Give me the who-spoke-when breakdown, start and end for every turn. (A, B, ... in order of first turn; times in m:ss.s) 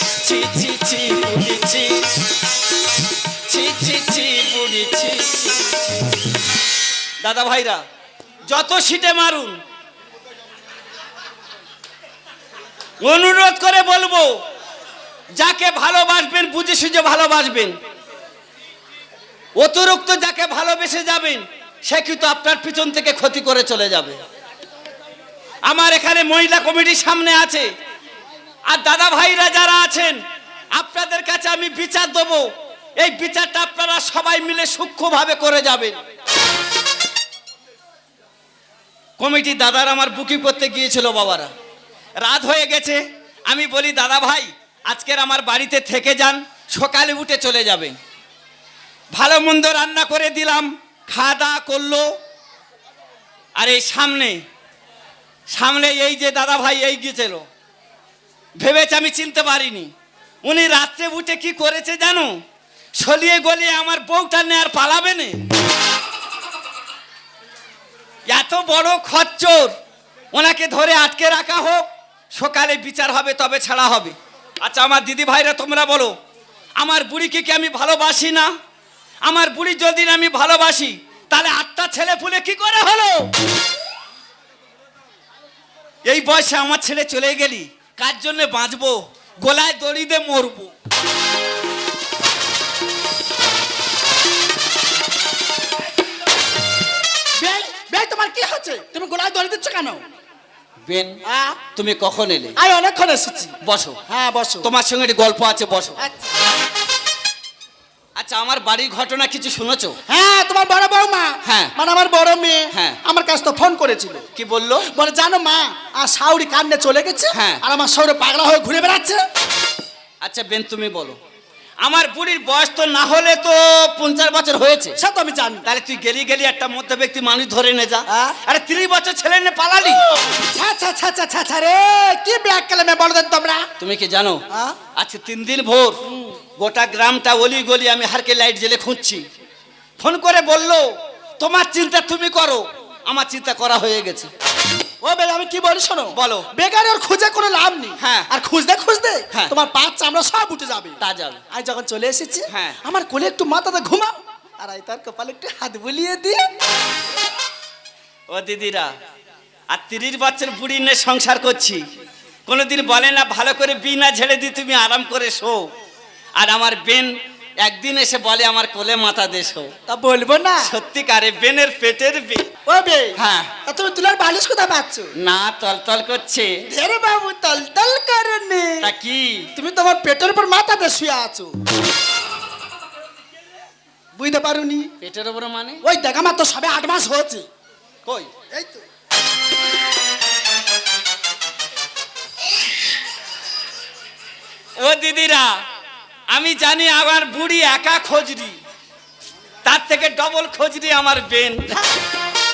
0:00.2-0:02.0 A
0:03.5-0:05.9 A
0:07.2-0:07.8 A
0:08.5-0:09.6 A
0:13.0-0:14.3 A
0:15.4-0:17.7 A
0:19.6-0:24.2 A
0:25.7-0:27.7 A
0:28.7-0:30.2 A
0:30.7-0:32.5 A
0:33.0-0:36.0 A
0:39.2-0:41.5 A
0:42.2-0:48.0 A
0:49.1-0:52.1 A
0:53.6-0:54.4 A
0:55.5-0:57.4 A
0:58.6-0:59.9 A
1:00.4-1:02.3 A
1:03.0-1:05.4 A
1:08.3-1:09.7 A
1:10.3-1:16.1 A
1:16.8-1:18.5 A
1:19.2-1:23.3 A
1:26.0-1:30.7 A
1:37.4-1:40.0 B
1:40.8-1:41.2 A
1:41.2-1:41.6 B
1:41.7-1:42.5 A
1:42.6-1:43.5 B
1:43.6-1:44.0 A
1:44.1-1:44.7 B
1:44.6-1:46.0 A
1:46.0-1:46.3 B
1:48.2-1:50.0 A
1:50.1-1:54.2 B
1:51.4-1:51.7 A
1:52.7-1:53.0 A
1:54.3-1:54.8 A
1:54.9-1:59.2 B
1:57.3-1:57.6 A
2:00.2-2:01.2 A
2:01.8-2:05.0 A
2:05.0-2:05.6 B
2:05.6-2:10.0 A
2:08.1-2:08.4 B
2:10.1-2:13.6 B
2:13.8-2:14.4 A
2:14.5-2:14.8 B
2:15.0-2:16.0 A
2:16.1-2:16.3 B
2:16.6-2:19.2 A
2:20.0-2:20.9 A
2:21.4-2:24.3 A
2:25.0-2:31.0 B
2:26.1-2:26.5 A
2:28.0-2:28.3 A
2:31.0-2:31.4 A
2:31.5-2:36.4 B
2:32.5-2:32.8 A
2:38.3-2:38.9 A
2:39.7-2:41.8 A
2:42.5-2:45.7 A
2:46.4-2:49.7 A
2:49.9-2:50.7 B
2:50.6-2:52.5 A
2:52.7-2:55.1 B
2:53.2-2:53.5 A
2:55.2-2:56.6 A
2:56.7-2:58.9 B
2:58.8-2:59.4 A
2:59.6-3:01.5 B
3:04.1-3:04.9 B
3:05.0-3:05.8 A
3:05.8-3:07.5 B
3:08.5-3:08.8 B
3:14.8-3:15.6 A
3:16.3-3:18.6 A
3:19.6-3:21.7 A